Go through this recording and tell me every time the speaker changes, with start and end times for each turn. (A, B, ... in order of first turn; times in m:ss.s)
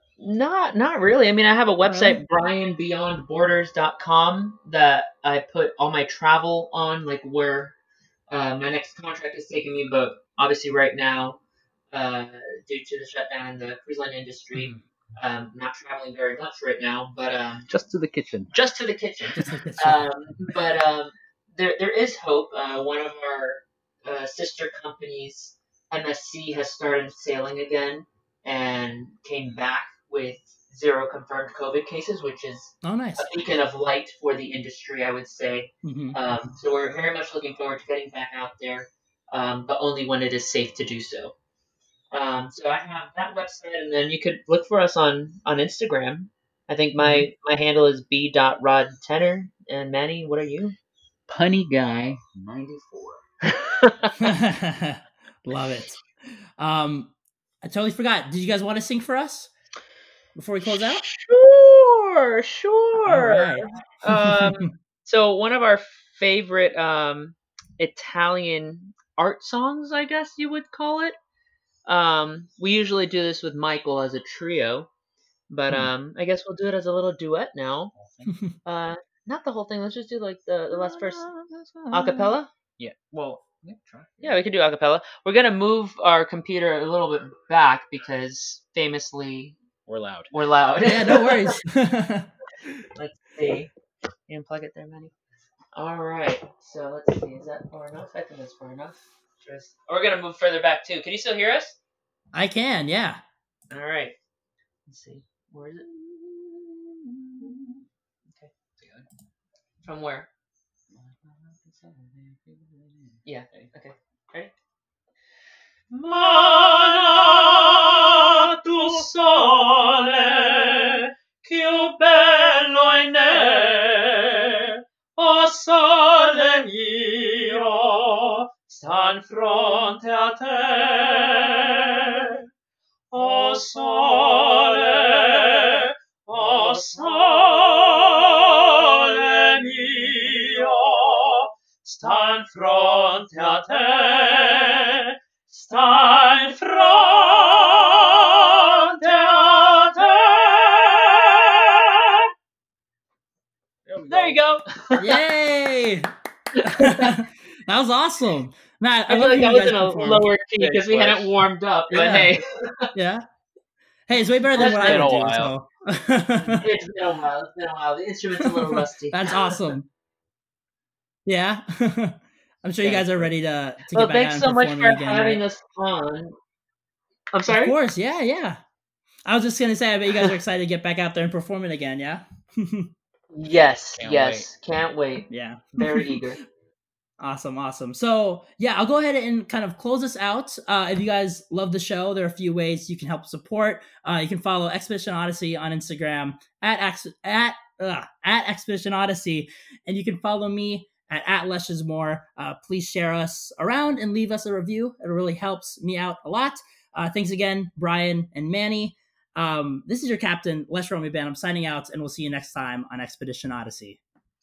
0:00.2-0:07.7 A
0:01.8-0:02.2 B
0:08.3-0:11.4 A
0:11.9-0:17.7 A
0:14.6-0:14.8 B
0:17.7-0:18.5 C
0:18.5-0:41.3 A
0:19.3-0:20.0 B
0:32.8-0:33.3 B
0:35.8-0:36.2 B
0:42.1-0:50.8 A
0:51.3-0:53.2 C
0:53.8-0:54.1 A
0:54.2-0:56.0 B
0:56.6-0:59.5 B
1:00.4-1:01.0 B
1:00.6-1:11.1 A
1:03.0-1:04.7 B
1:11.9-1:14.9 A
1:15.5-1:17.9 A
1:17.9-1:18.3 C
1:18.6-1:21.3 A
1:20.8-1:24.4 C
1:21.9-1:22.5 A
1:24.2-1:29.6 A
1:29.9-1:30.3 C
1:30.3-1:31.6 A
1:30.8-1:32.8 B
1:32.9-1:33.7 A
1:34.3-1:35.1 A
1:35.7-1:41.8 A
1:42.3-1:43.2 B
1:43.7-1:44.2 A
1:44.9-1:47.8 A
1:48.8-1:49.1 C
1:49.8-1:50.3 A
1:50.9-1:53.7 C
1:53.2-1:54.5 A
1:55.9-2:12.4 A
2:13.1-2:25.0 A
2:25.5-2:32.2 A
2:33.9-2:34.4 C
2:34.1-2:35.2 A
2:35.0-2:40.3 B
2:36.6-2:37.1 A
2:39.1-2:42.9 A
2:40.6-2:41.3 C
2:41.9-2:42.3 B
2:42.9-2:43.2 B
2:44.1-2:46.6 B
2:44.5-2:45.1 A
2:44.8-2:45.5 C
2:46.6-2:49.6 A
2:48.6-2:49.9 B
2:51.2-2:55.4 B
2:52.8-2:53.3 C
2:53.9-2:56.3 A
2:57.3-2:57.8 A
2:57.5-2:58.6 B
2:59.2-3:02.9 B
3:03.3-3:06.4 A
3:04.0-3:04.5 C
3:05.3-3:06.2 B
3:07.2-3:34.0 B